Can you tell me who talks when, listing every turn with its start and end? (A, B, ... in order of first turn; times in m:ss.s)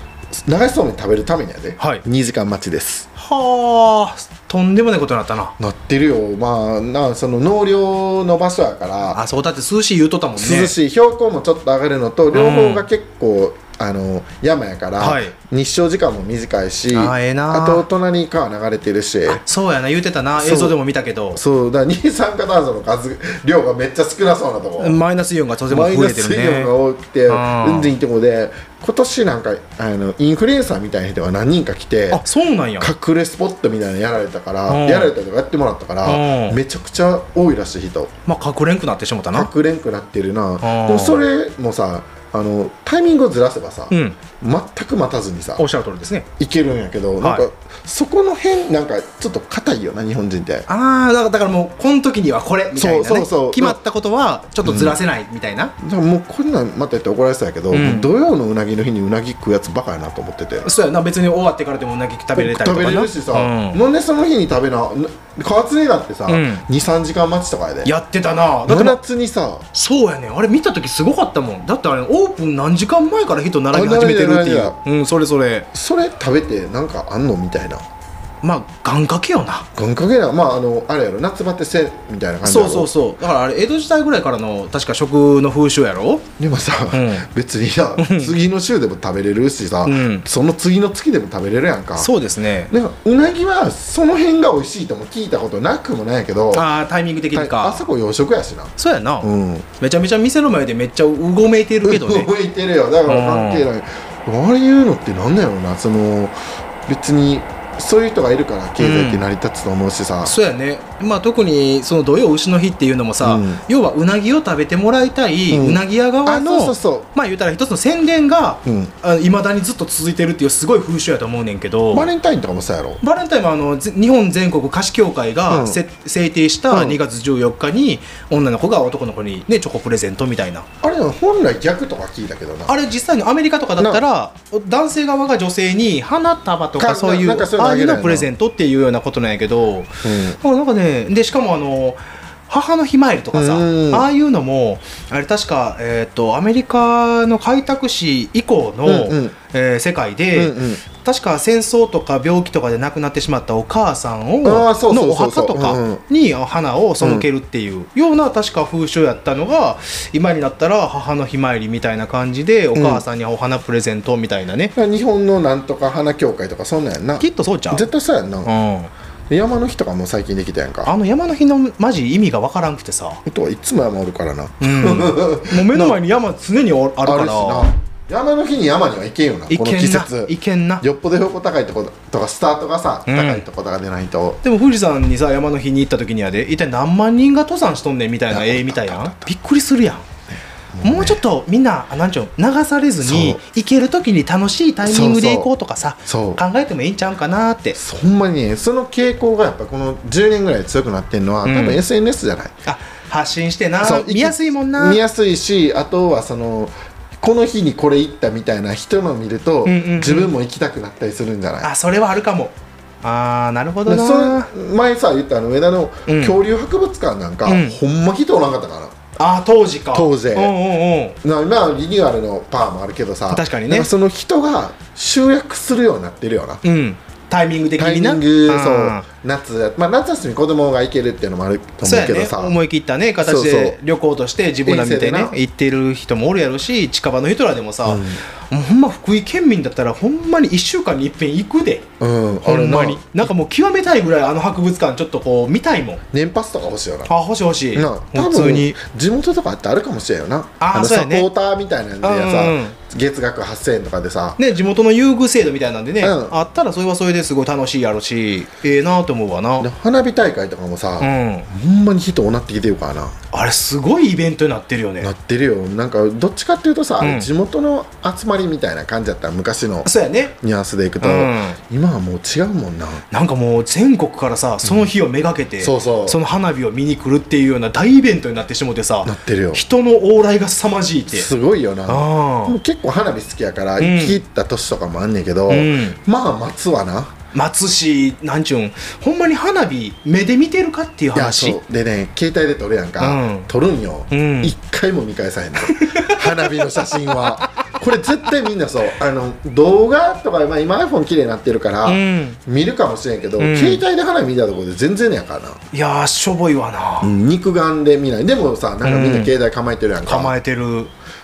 0:00.3-0:03.1 A
0:01.8-0:02.0 B
0:03.2-0:05.6 B
0:05.6-0:09.2 A
0:09.1-0:10.7 B
0:10.4-0:19.4 A
0:12.3-0:12.9 B
0:15.0-0:15.3 B
0:16.9-0:17.8 B
0:19.3-0:21.4 B
0:20.4-0:20.8 A
0:21.4-0:25.0 A
0:24.8-0:26.7 B
0:25.7-0:32.2 A
0:27.3-0:27.9 B
0:32.1-0:32.9 B
0:32.8-0:38.1 A
0:34.7-0:35.1 B
0:36.0-0:36.6 B
0:38.3-0:39.5 B
0:39.3-0:45.6 A
0:40.6-0:41.2 B
0:43.9-0:44.2 B
0:45.6-0:46.3 B
0:46.4-0:50.7 A
0:50.7-0:55.7 B
0:52.8-0:53.8 A
0:54.6-0:55.0 A
0:55.8-1:00.7 A
0:57.7-0:58.1 B
1:00.6-1:03.8 B
1:02.4-1:07.9 A
1:06.3-1:06.6 B
1:07.8-1:09.0 B
1:08.7-1:09.7 A
1:09.7-1:15.7 B
1:13.7-1:14.8 A
1:15.7-1:17.8 A
1:18.4-1:19.7 B
1:19.8-1:22.9 A
1:22.4-1:26.3 B
1:26.4-1:32.1 A
1:26.9-1:27.3 B
1:28.0-1:28.4 B
1:29.8-1:30.2 B
1:32.0-1:32.7 B
1:32.7-1:36.7 A
1:36.5-1:37.9 B
1:37.3-1:39.7 A
1:38.8-1:42.3 B
1:41.8-1:50.3 A
1:43.1-1:43.7 B
1:48.8-1:49.2 B
1:50.2-2:02.1 B
1:53.2-1:53.6 A
1:55.5-1:57.1 A
1:58.6-1:58.9 A
2:01.9-2:03.0 A
2:03.0-2:10.7 B
2:05.5-2:05.8 A
2:06.7-2:07.0 A
2:10.8-2:12.8 A
2:12.7-2:44.7 B
2:16.8-2:18.3 A
2:20.0-2:20.4 A
2:23.3-2:24.1 A
2:28.8-2:29.4 A
2:30.3-2:30.8 A
2:34.4-2:36.0 A
2:37.0-2:37.3 A
2:42.8-2:43.0 A
2:44.8-2:48.5 A
2:47.2-2:47.9 B
2:48.4-2:48.9 B
2:49.3-2:50.9 A
2:50.8-2:53.2 B
2:53.3-2:56.0 A
2:54.6-2:57.7 B
2:57.0-3:04.4 A
2:59.5-3:00.8 B
3:03.1-3:03.4 B
3:04.4-3:10.1 B
3:08.3-3:09.3 A
3:10.3-3:11.2 A
3:10.8-3:17.8 B
3:13.0-3:13.4 A
3:14.8-3:15.5 A
3:16.1-3:16.4 A
3:17.8-3:22.6 A
3:21.4-3:21.8 B
3:22.7-3:25.0 B
3:23.8-3:31.7 A
3:29.6-3:30.3 B
3:31.6-3:34.5 B
3:33.9-3:39.0 A
3:36.1-3:36.4 B
3:37.5-3:37.8 B
3:39.2-3:41.2 B
3:39.9-3:40.5 A
3:41.2-3:46.6 A
3:43.3-3:43.9 B
3:46.6-3:49.1 B
3:47.8-3:52.6 A
3:51.8-4:01.9 B
3:53.2-3:53.8 A
3:54.6-3:55.3 A
3:57.8-3:58.2 A
4:02.0-4:03.3 A
4:02.4-4:06.0 B
4:06.1-4:07.1 A
4:07.1-4:08.8 B
4:07.7-4:14.4 A
4:10.6-4:11.3 B
4:12.0-4:12.8 B
4:14.4-4:19.7 B
4:16.0-4:16.3 A
4:19.6-4:23.2 A
4:21.0-4:21.5 B
4:23.3-4:25.1 B
4:25.0-4:33.0 A
4:27.0-4:27.3 B
4:29.8-4:30.4 B
4:31.0-4:31.6 B
4:33.1-4:41.3 B
4:34.6-4:34.9 A
4:35.6-4:36.2 A
4:39.0-4:39.6 A
4:41.1-4:47.1 A
4:41.9-4:42.6 B
4:43.8-4:44.2 B
4:45.5-4:46.0 B
4:47.3-4:51.6 B
4:51.1-5:05.6 A
4:53.0-4:53.5 B
4:54.1-4:54.5 B
4:55.6-4:58.2 B
5:01.8-5:02.4 B
5:03.4-5:03.8 B
5:05.7-5:07.1 B
5:07.0-5:10.3 A
5:08.8-5:09.3 B
5:10.1-5:10.9 B